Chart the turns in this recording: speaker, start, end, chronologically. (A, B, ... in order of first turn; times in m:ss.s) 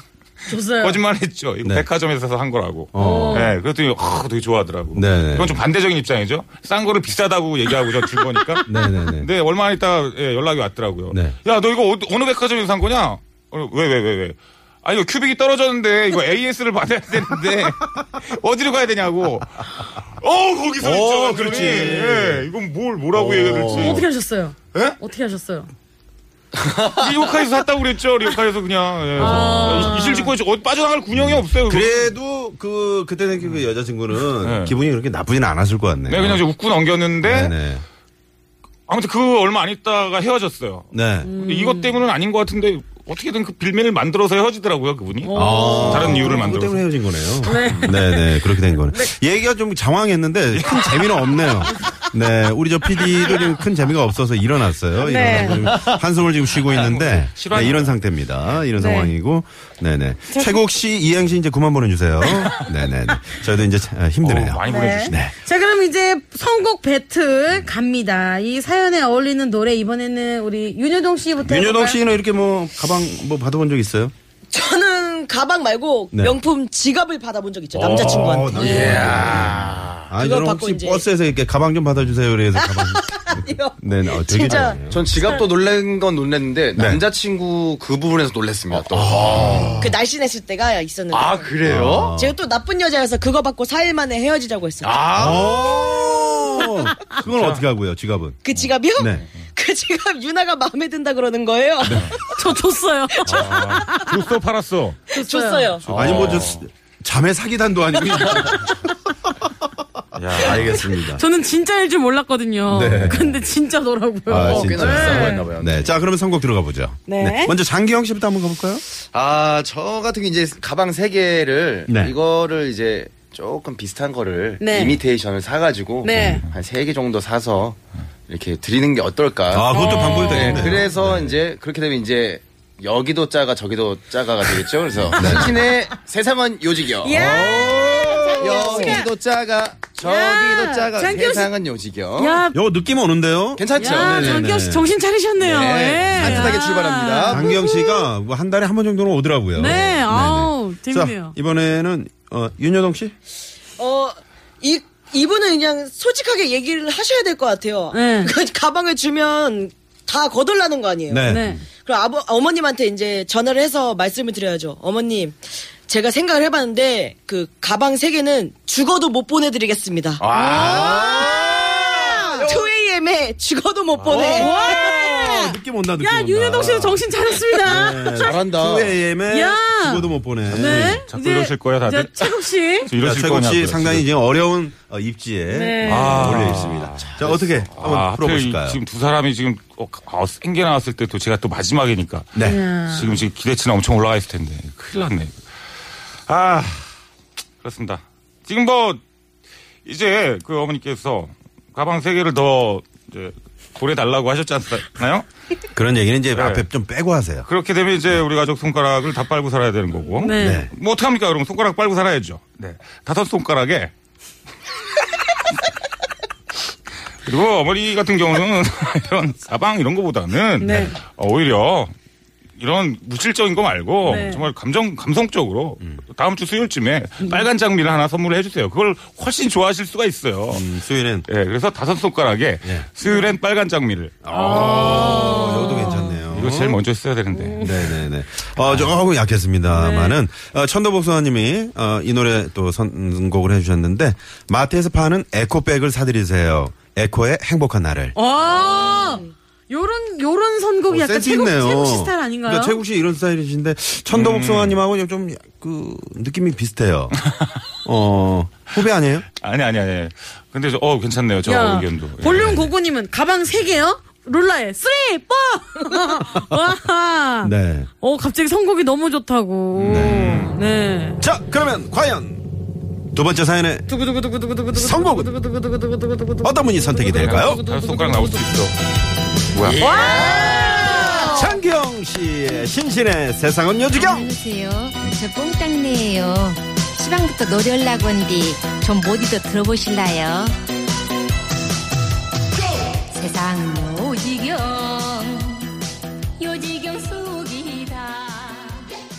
0:00.5-0:01.0 A
0:00.8-0:24.0 B
0:02.9-0:03.5 C
0:03.0-0:03.5 A
0:04.9-0:05.6 C
0:08.7-0:09.3 C
0:11.1-0:11.4 C
0:20.8-0:22.4 C
0:23.1-0:24.0 C
0:23.7-0:25.7 A
0:26.5-0:27.1 D
0:27.0-0:32.0 B
0:29.2-0:30.3 A
0:29.2-0:29.9 C
0:31.1-0:36.4 C
0:34.4-0:34.7 B
0:36.1-0:37.5 B
0:37.2-0:37.8 C
0:38.9-0:46.8 B
0:40.9-0:41.3 C
0:41.2-0:41.9 A
0:45.2-0:46.5 A
0:45.3-1:05.3 C
0:47.4-0:49.1 A
0:47.6-0:47.9 B
0:50.6-0:51.3 B
0:55.0-0:55.6 A
0:55.7-0:56.0 D
0:56.6-0:58.0 B
0:58.8-0:59.1 A
1:00.3-1:00.6 A
1:02.2-1:02.7 A
1:04.2-1:05.2 B
1:04.7-1:12.0 A
1:11.4-1:14.1 C
1:14.5-1:19.5 E
1:17.7-1:25.0 C
1:17.9-1:20.1 D
1:20.2-1:21.0 E
1:22.6-1:24.8 E
1:24.5-1:29.8 D
1:26.8-1:27.0 C
1:28.7-1:29.9 C
1:29.8-1:35.2 E
1:31.1-1:32.2 D
1:31.6-1:32.4 C
1:34.8-1:35.8 D
1:35.1-1:38.4 C
1:36.6-1:37.2 A
1:37.2-1:37.6 B
1:38.4-1:42.3 E
1:39.0-1:39.2 C
1:41.8-1:42.1 C
1:42.3-1:44.1 A
1:43.2-1:45.0 B
1:43.2-1:43.5 E
1:45.1-1:45.7 A
1:45.1-1:45.8 E
1:45.8-1:46.6 B
1:45.9-1:48.9 C
1:45.9-1:46.5 D
1:50.1-1:50.8 B
1:50.3-1:51.2 C
1:51.1-1:55.5 A
1:52.7-1:53.4 C
1:54.3-1:58.8 C
1:54.3-1:55.9 D
1:57.1-1:57.5 A
1:59.1-2:22.4 D
2:01.9-2:02.1 C
2:04.6-2:05.0 A
2:06.0-2:06.4 A
2:06.1-2:06.4 C
2:09.5-2:11.4 C
2:09.7-2:10.7 A
2:15.1-2:15.6 C
2:15.2-2:15.4 A
2:17.0-2:19.0 A
2:17.1-2:18.6 C
2:18.4-2:18.8 E
2:20.0-2:21.5 A
2:22.2-2:22.6 A
2:22.5-2:24.9 C
2:23.6-2:24.5 D
2:23.8-2:28.1 A
2:25.4-2:27.5 D
2:26.1-2:26.6 C
2:27.3-2:33.1 C
2:29.6-2:31.3 A
2:33.8-2:54.7 E
2:37.9-2:38.3 A
2:41.1-2:41.6 C
2:41.3-2:41.6 A
2:50.2-2:52.7 D
2:50.4-2:52.5 C
2:54.0-2:54.4 B
2:54.1-2:57.0 C
2:54.3-2:58.3 A
2:57.6-3:01.0 C
2:58.1-2:59.0 D
2:59.3-3:02.9 A
3:00.5-3:04.1 B
3:03.0-3:08.8 C
3:05.5-3:06.3 A
3:05.8-3:12.4 B
3:07.0-3:07.7 D
3:12.3-3:12.6 C
3:12.4-3:13.2 A
3:12.9-3:15.4 B
3:16.3-3:16.9 B
3:17.6-3:19.0 B
3:19.8-3:25.2 B
3:25.7-3:27.5 C
3:26.3-3:26.6 B
3:27.5-3:33.9 B
3:30.2-3:30.6 A
3:30.4-3:30.7 C
3:37.2-3:41.9 B
3:40.6-3:41.0 A
3:42.6-3:50.7 B
3:44.0-3:44.4 A
3:50.5-3:51.2 C
3:51.3-3:55.6 B
3:54.2-3:56.8 C
3:54.3-3:56.2 A
3:56.3-3:57.7 B
3:57.3-3:57.9 A
3:57.6-4:08.1 C
3:59.7-4:00.2 A
4:08.1-4:12.8 A
4:08.4-4:09.3 E
4:10.9-4:17.2 C
4:14.1-4:14.8 B
4:17.8-4:19.2 C
4:19.4-4:22.6 B
4:21.4-4:31.2 A
4:22.2-4:22.6 C
4:26.3-4:26.6 C
4:27.4-4:27.9 C
4:29.7-4:30.6 B
4:29.9-4:30.4 C
4:31.2-4:32.4 C
4:33.1-4:33.9 C
4:33.9-4:38.4 A
4:34.7-4:35.3 C
4:36.4-4:37.6 C
4:37.2-4:38.8 B
4:39.5-4:39.8 B
4:39.7-4:40.6 D
4:39.8-4:41.3 E
4:39.8-4:41.6 A
4:40.1-4:44.3 C
4:43.9-4:50.6 F
4:53.1-4:55.7 F
4:56.4-4:58.8 F